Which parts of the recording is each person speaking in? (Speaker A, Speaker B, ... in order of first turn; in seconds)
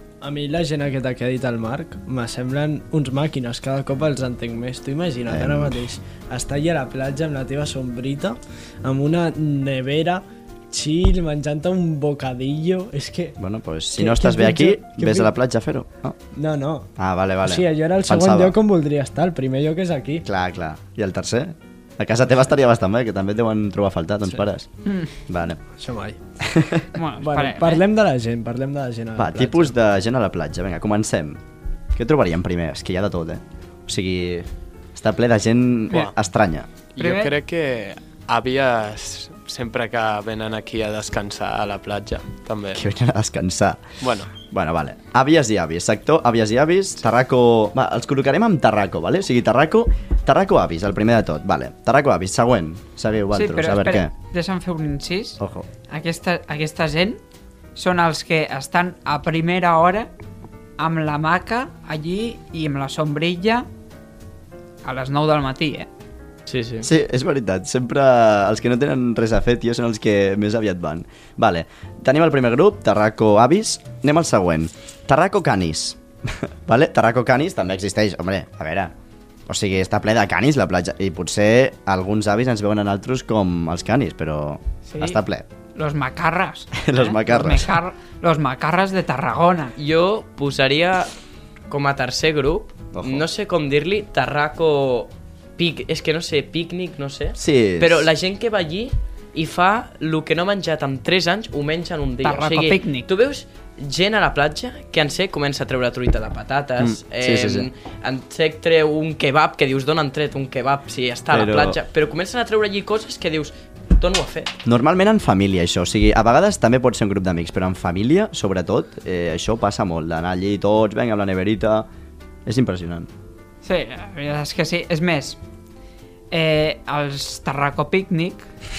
Speaker A: 0.2-13.4, 14.0-15.3, 16.4-16.9, 17.4-20.3, 25.8-26.2, 27.2-29.7
Speaker B: 5.3-5.8, 13.4-16.2, 17.0-18.6, 20.2-24.7, 25.2-25.6, 26.4-26.9, 29.2-31.4, 31.9-36.7, 42.7-43.8, 44.4-54.1, 55.4-55.7, 66.8-78.9, 79.5-85.5, 86.8-87.8, 92.9-93.3, 97.4-98.1, 106.8-107.7, 111.3-111.8, 114.7-121.9, 122.5-123.1
Speaker C: 26.9-27.8, 37.0-37.4, 53.3-57.2, 57.8-60.1, 60.8-63.7, 64.8-65.9, 84.9-85.2, 85.8-89.8, 102.2-103.1, 123.6-125.4, 126.3-128.5
Speaker D: 37.0-42.8, 44.0-44.3
Speaker E: 66.5-66.9, 89.8-91.1, 91.7-114.6